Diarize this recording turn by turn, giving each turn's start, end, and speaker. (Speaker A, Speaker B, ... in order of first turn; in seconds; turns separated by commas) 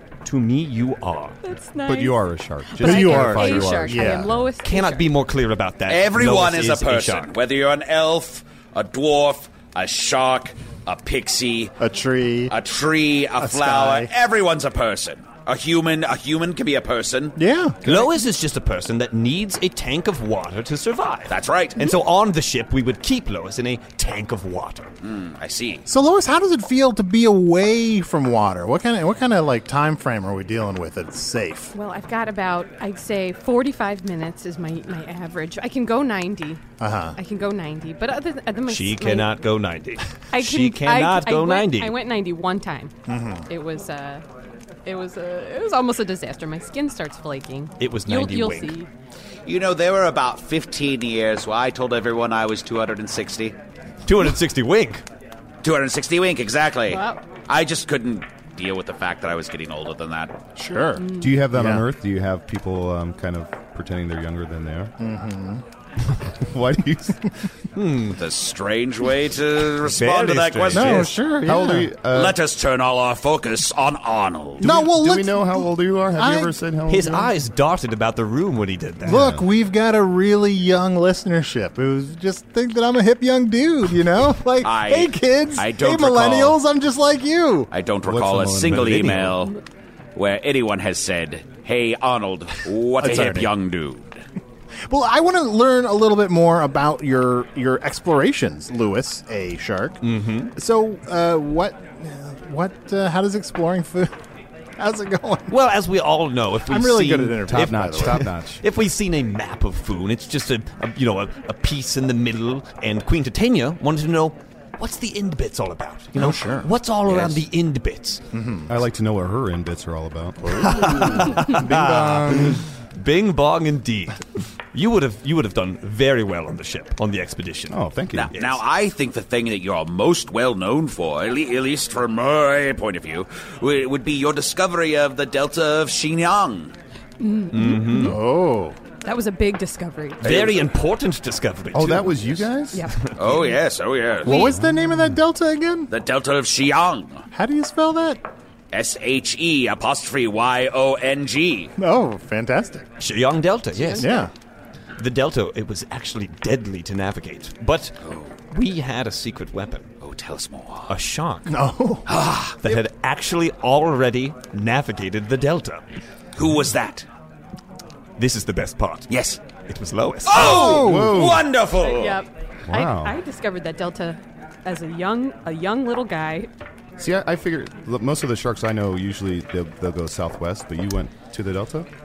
Speaker A: 0.2-1.4, Speaker B: 1.4-5.1, Speaker C: 1.8-4.5, Speaker D: 2.8-4.3, Speaker A: 4.6-7.3, Speaker E: 5.9-11.7, Speaker D: 11.8-12.5, Speaker E: 12.5-17.3, Speaker D: 13.4-14.1, Speaker D: 17.4-17.8, Speaker A: 17.8-24.9, Speaker E: 21.3-21.8, Speaker E: 25.0-25.8, Speaker D: 25.9-31.7, Speaker B: 31.7-36.6, Speaker D: 36.8-37.2, Speaker B: 37.1-39.3, Speaker A: 38.7-42.0, Speaker B: 40.3-42.9, Speaker D: 43.1-43.5, Speaker B: 43.5-44.2, Speaker B: 44.8-48.9, Speaker A: 47.8-48.7, Speaker E: 49.5-53.5, Speaker A: 54.0-55.0, Speaker E: 55.6-60.4, Speaker B: 56.9-57.2, Speaker D: 60.5-61.8, Speaker B: 61.0-61.4, Speaker C: 61.2-64.9, Speaker D: 65.0-65.6, Speaker C: 66.5-67.2, Speaker A: 67.8-68.1, Speaker E: 68.1-71.1, Speaker A: 69.8-71.2, Speaker D: 70.7-71.9, Speaker C: 71.4-72.4, Speaker E: 72.1-74.7, Speaker D: 74.6-76.5, Speaker C: 74.6-77.3, Speaker A: 76.9-79.2, Speaker C: 79.0-79.4, Speaker D: 79.0-87.7, Speaker E: 84.6-86.6, Speaker E: 87.7-89.5, Speaker C: 88.0-89.4, Speaker A: 88.6-89.4, Speaker E: 90.2-94.2, Speaker D: 93.0-93.5, Speaker D: 94.9-100.0, Speaker A: 100.0-100.5, Speaker D: 100.6-104.1, Speaker D: 104.8-105.5, Speaker A: 105.5-118.2, Speaker D: 106.7-108.2, Speaker C: 107.5-108.6, Speaker D: 116.2-116.7, Speaker E: 117.1-117.4, Speaker D: 118.3-118.7, Speaker C: 118.7-122.6, Speaker A: 120.6-127.8, Speaker C: 127.7-128.3, Speaker E: 128.1-136.7, Speaker A: 128.3-128.6, Speaker B: 137.2-138.2, Speaker A: 137.5-138.2, Speaker D: 138.0-138.8, Speaker B: 139.0-140.3, Speaker E: 140.2-140.7, Speaker A: 140.2-142.4, Speaker C: 141.7-142.8, Speaker B: 142.7-143.0, Speaker E: 143.2-144.5, Speaker D: 144.2-145.9, Speaker E: 145.9-147.2, Speaker D: 147.3-148.2, Speaker E: 148.7-151.7, Speaker D: 151.8-152.8, Speaker A: 153.0-154.1, Speaker B: 153.7-154.3, Speaker D: 154.0-154.3, Speaker A: 155.0-157.9, Speaker E: 158.0-158.3, Speaker A: 158.5-159.9, Speaker E: 160.0-161.0, Speaker A: 160.9-161.5, Speaker D: 161.5-162.0, Speaker E: 162.1-162.6, Speaker A: 162.6-165.8, Speaker E: 166.3-167.1, Speaker A: 168.2-169.1, Speaker E: 169.1-169.4, Speaker A: 169.7-170.6, Speaker E: 170.2-172.2, Speaker D: 170.3-171.3, Speaker C: 170.6-171.5, Speaker B: 171.8-176.5, Speaker C: 172.7-173.2, Speaker C: 177.0-181.9